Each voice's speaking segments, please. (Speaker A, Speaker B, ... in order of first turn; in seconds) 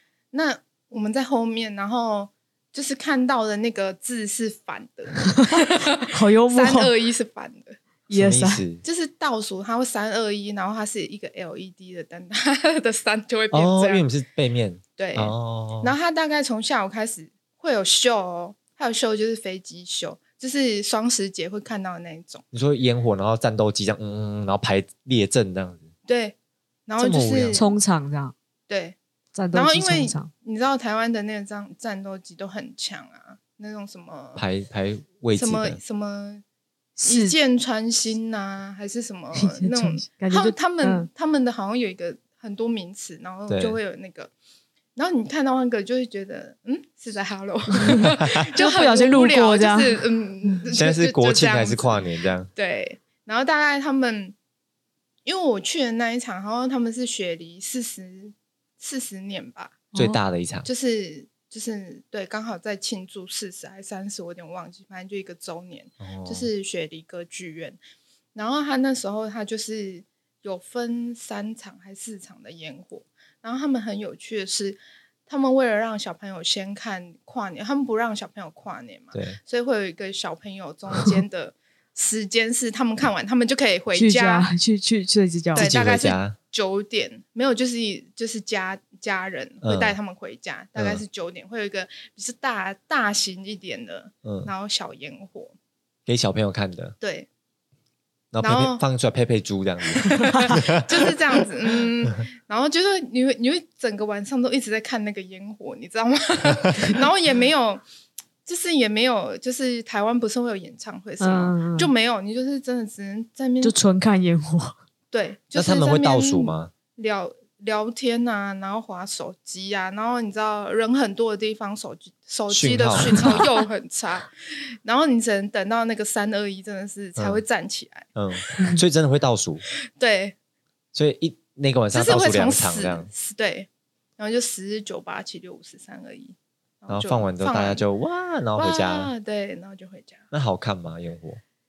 Speaker A: 0.3-7.8, 8.8-14.1, 15.0-22.4, 26.1-26.4, 26.9-27.7, 28.7-29.0, 29.5-34.4, 35.3-36.4, 37.0-44.3, 45.0-54.3, 55.2-59.8, 60.6-67.8, 68.3-84.5, 85.5-95.5, 97.0-97.3, 98.4-98.8, 100.0-107.8, 108.5-113.8, 115.1-128.1, 130.0-130.3, 131.9-137.8, 138.6-140.2
Speaker B: 5.2-6.9, 8.1-8.6, 27.5-28.3, 29.3-30.3, 37.0-37.4, 39.3-41.1, 47.7-50.0, 59.9-60.2, 83.9-85.7, 111.2-111.9, 113.6-114.8, 123.0-123.4
Speaker C: 8.1-8.8, 13.5-15.9, 22.5-25.9, 27.0-27.6, 34.4-35.8, 43.5-43.8, 48.1-48.5, 50.7-52.5, 59.9-60.7, 66.0-66.5, 79.1-79.4, 85.5-86.3, 89.6-90.0, 90.8-91.0, 94.2-94.5, 96.1-96.9, 98.3-101.1, 106.5-106.9, 115.5-116.7, 122.5-123.5, 127.2-127.4, 128.2-129.6, 130.9-133.1, 136.9-139.1, 140.3-141.4